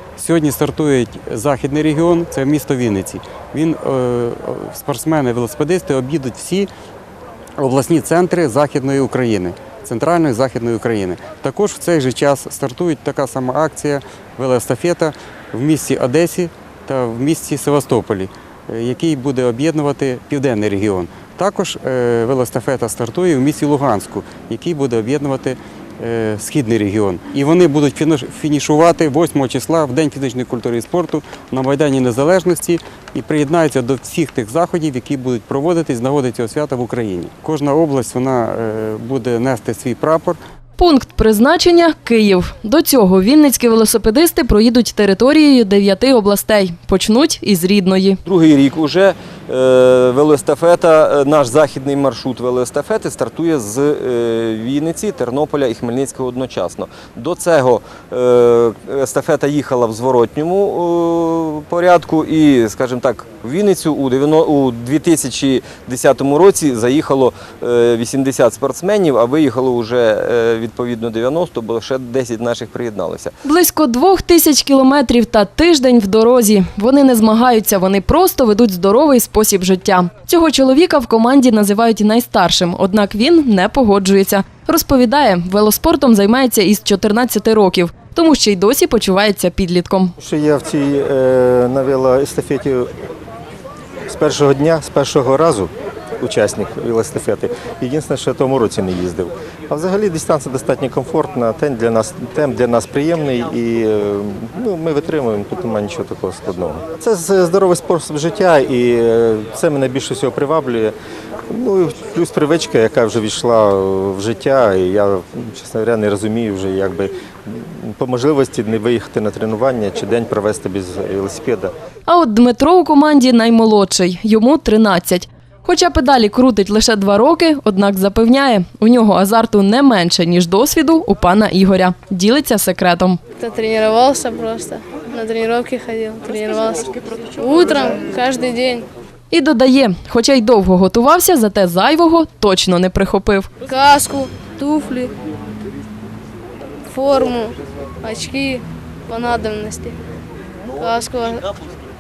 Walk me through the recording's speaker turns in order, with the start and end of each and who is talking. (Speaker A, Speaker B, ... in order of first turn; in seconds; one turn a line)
Speaker A: 0.2-6.7
Speaker A: 7.6-40.4
Speaker B: 40.8-48.2
Speaker C: 48.2-73.3
Speaker B: 73.4-90.2
Speaker D: 90.2-92.9
Speaker D: 94.1-110.9
Speaker D: 111.5-121.7
Speaker B: 122.1-133.2
Speaker E: 133.4-138.9
Speaker B: 139.3-143.5
Speaker E: 143.6-145.1
Speaker E: 146.9-150.0
Speaker E: 150.8-151.5